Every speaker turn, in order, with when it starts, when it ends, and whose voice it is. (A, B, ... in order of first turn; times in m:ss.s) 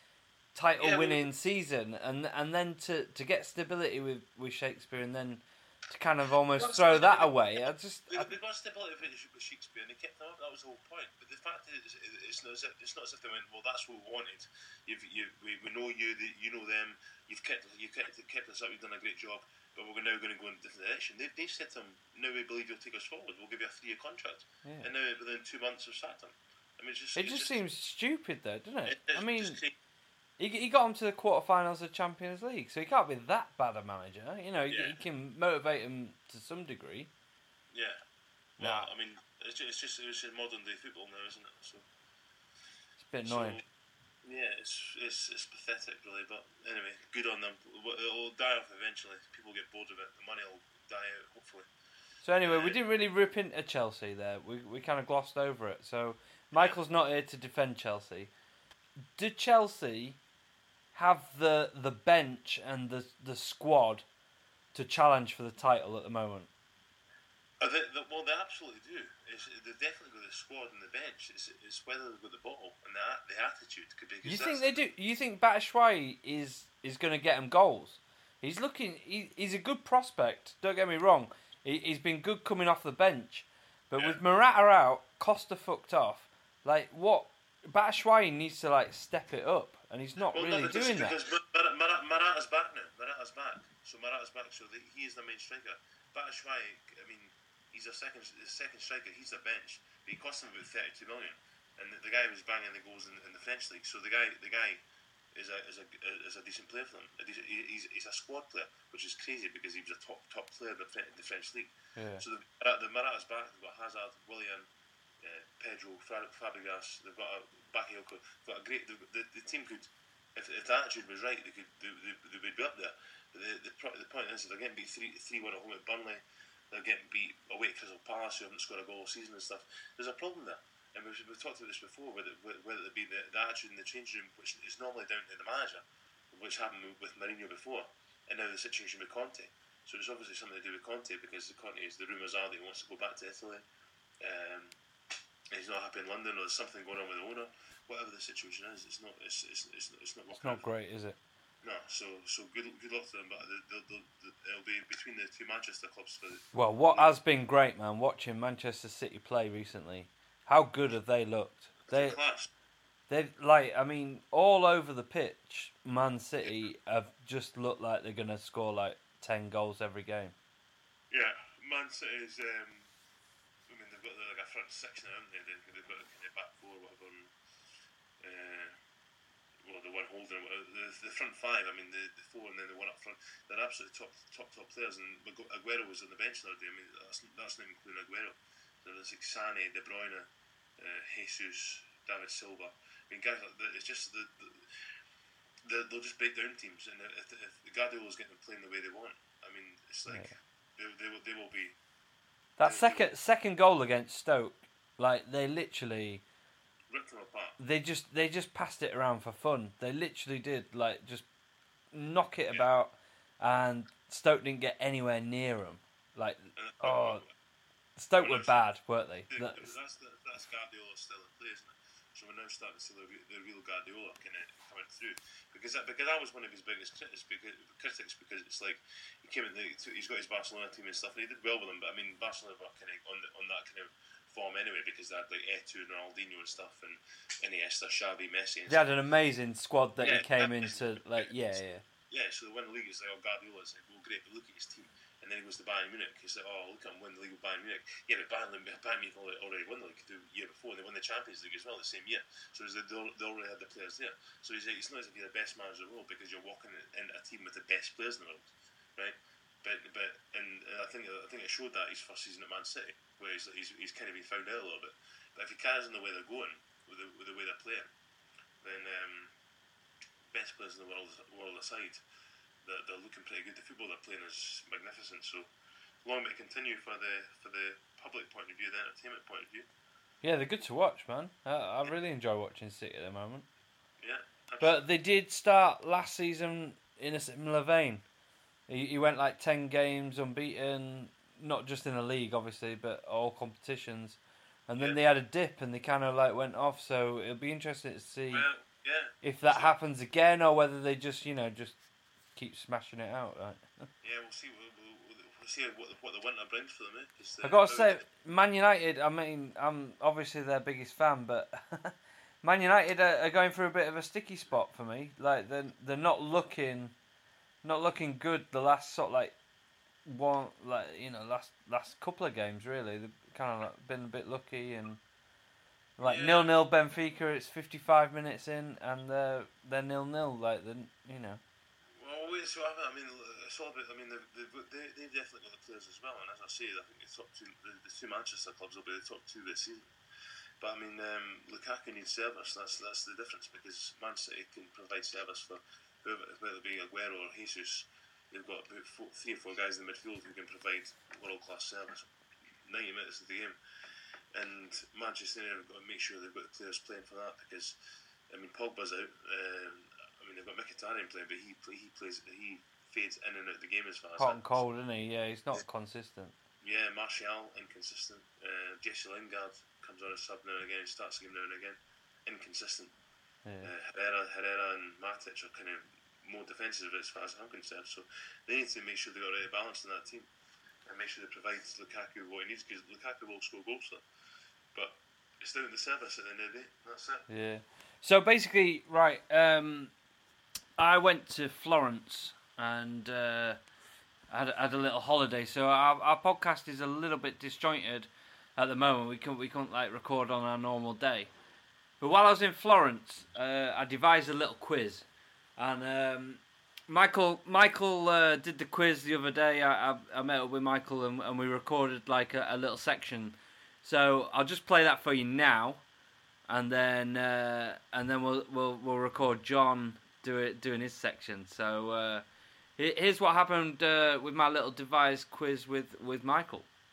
0:00.5-0:08.3 A
0:00.8-0:01.3 B
0:06.6-0:27.6 B
0:27.1-0:29.6 A
0:28.9-0:29.7 B
0:30.4-0:37.1 A
0:34.7-0:35.0 B
0:37.7-0:38.0 B
0:38.6-0:41.8 B
0:38.6-0:38.9 A
0:43.0-0:43.6 A
0:43.2-0:43.6 B
0:44.2-0:51.7 B
0:52.2-0:58.3 A
0:52.4-0:52.8 B
0:56.5-0:56.8 B
0:59.2-1:00.2 A
1:00.9-1:04.0 A
1:04.7-1:06.5 A
1:07.6-1:14.8 B
1:14.2-1:31.1 A
1:30.3-1:44.8 B
1:45.3-1:54.7 B
1:52.0-1:52.2 A
1:55.2-2:23.6 B
2:24.2-2:24.7 B
2:25.5-2:30.7 B
2:30.3-2:31.2 A
2:31.6-2:37.1 B
2:36.5-2:42.2 A
2:41.9-2:42.5 B
2:43.1-2:50.3 A
2:51.1-2:52.9 B
2:53.7-2:57.3 B
2:58.2-2:58.8 B
2:59.6-3:14.6 B
3:15.6-3:21.7 B
3:20.1-3:20.3 A
3:22.6-3:26.2 A
3:22.6-3:23.1 B
3:26.9-3:27.6 B
3:27.6-3:31.2 A
3:31.9-3:37.2 A
3:36.6-3:37.3 B
3:38.0-3:39.7 A
3:38.2-3:38.6 B
3:39.3-3:58.9 B
3:58.7-4:01.8 A
4:00.0-4:27.9 B
4:28.6-4:29.3 B
4:30.3-4:32.0 B
4:32.6-4:35.5 B
4:36.0-4:39.7 B
4:40.2-4:43.4 A
4:44.0-4:44.8 B
4:44.6-4:48.0 A
4:48.7-4:58.4 A
4:58.3-4:59.7 B
4:59.2-5:01.8 A
5:02.4-5:03.9 A
5:04.0-5:08.0 B
5:07.4-5:16.9 A
5:17.6-5:19.3 A
5:20.0-5:25.0 A
5:26.0-5:31.4 A
5:26.0-5:26.6 B
5:32.0-5:39.9 B
5:40.6-5:52.1 B
5:52.6-5:53.6 B
5:54.3-5:57.8 B
5:58.3-6:04.6 B
6:04.2-6:06.3 A
6:06.6-6:12.9 B
6:13.6-6:20.3 B
6:20.9-6:24.0 B
6:24.7-6:27.2 B
6:27.3-6:29.9 A
6:30.8-6:33.6 A
6:34.3-6:41.3 A
6:42.0-6:45.0 A
6:45.6-6:55.8 A
6:56.5-7:02.2 A
7:02.8-7:06.7 A